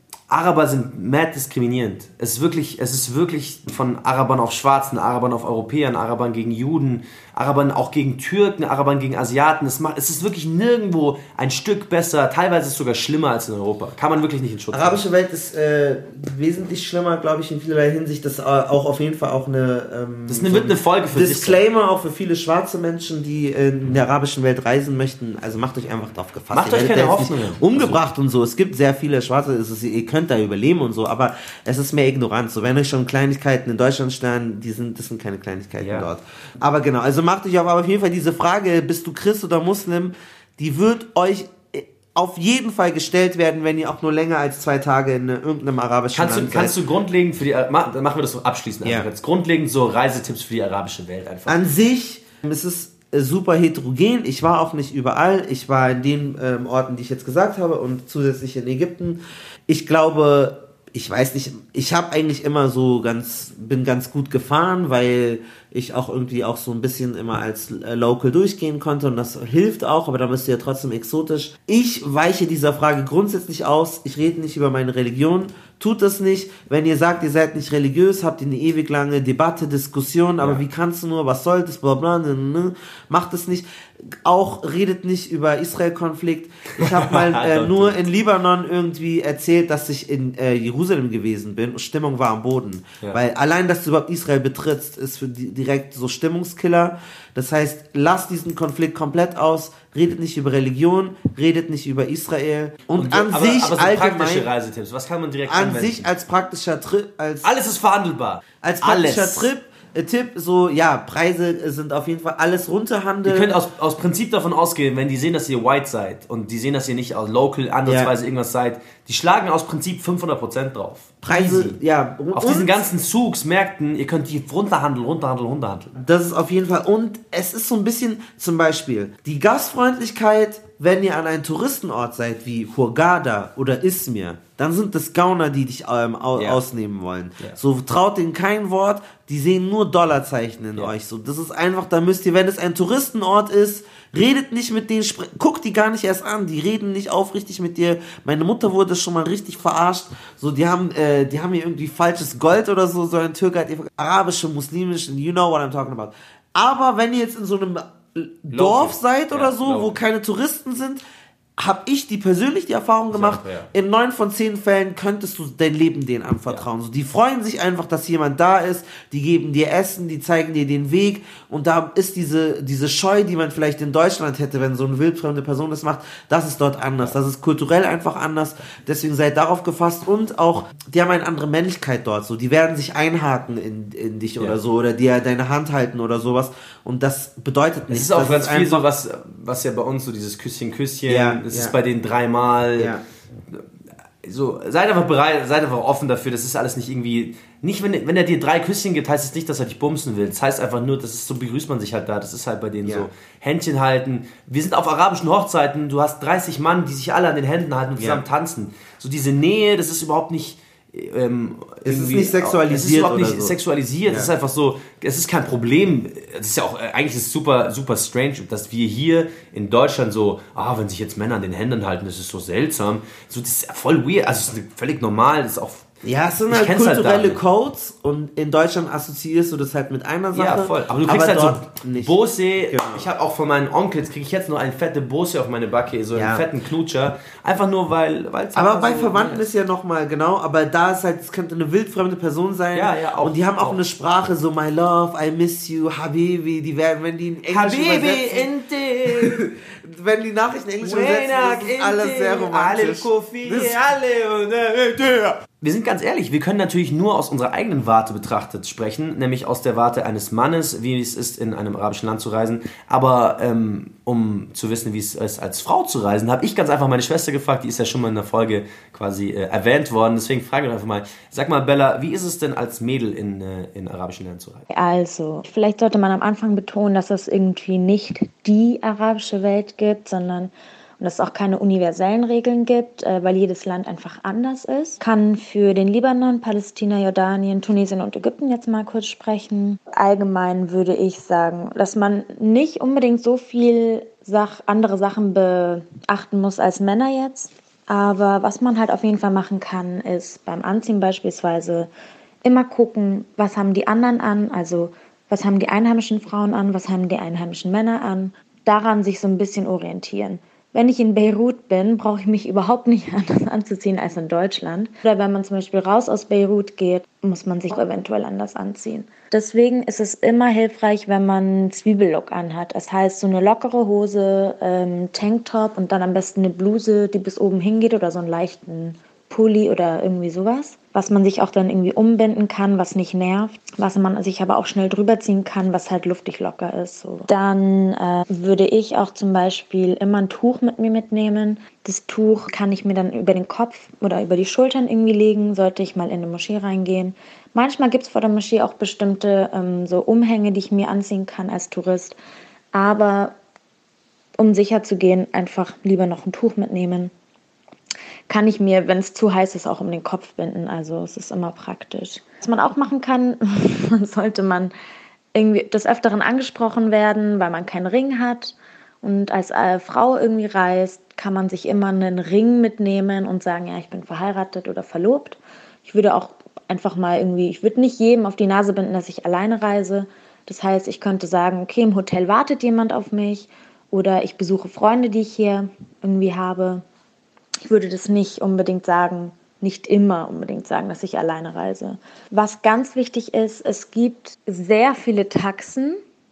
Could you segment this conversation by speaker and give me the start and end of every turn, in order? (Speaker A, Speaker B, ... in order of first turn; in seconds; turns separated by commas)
Speaker A: 0.3-15.0, Speaker B: 14.7-46.8, Speaker A: 20.3-21.6, Speaker A: 26.5-28.0, Speaker A: 35.8-36.1, Speaker A: 46.1-51.6, Speaker B: 48.8-49.1, Speaker B: 51.5-104.5, Speaker A: 86.8-88.0, Speaker A: 102.9-106.1, Speaker B: 105.5-107.5, Speaker A: 107.4-109.5, Speaker B: 108.6-113.5, Speaker A: 113.3-121.8, Speaker B: 117.8-118.1, Speaker B: 121.2-122.8, Speaker A: 122.3-125.9, Speaker B: 125.9-161.0, Speaker A: 136.3-136.6, Speaker A: 158.5-160.0, Speaker B: 161.6-188.8, Speaker A: 163.1-163.7, Speaker A: 187.9-192.9, Speaker B: 191.1-191.8, Speaker B: 192.8-193.0, Speaker A: 194.2-225.9, Speaker B: 208.0-208.2, Speaker B: 211.8-214.3, Speaker B: 226.0-232.2, Speaker A: 226.5-227.4, Speaker A: 230.3-239.4, Speaker B: 232.7-233.1, Speaker B: 236.1-236.4, Speaker B: 238.5-248.5, Speaker A: 242.7-243.8, Speaker A: 247.5-249.4, Speaker B: 249.1-253.8, Speaker A: 250.8-274.6, Speaker C: 274.7-301.9, Speaker C: 302.4-352.2, Speaker C: 352.7-353.3, Speaker C: 354.4-357.1, Speaker C: 358.3-364.7, Speaker C: 365.3-386.8, Speaker C: 387.6-396.0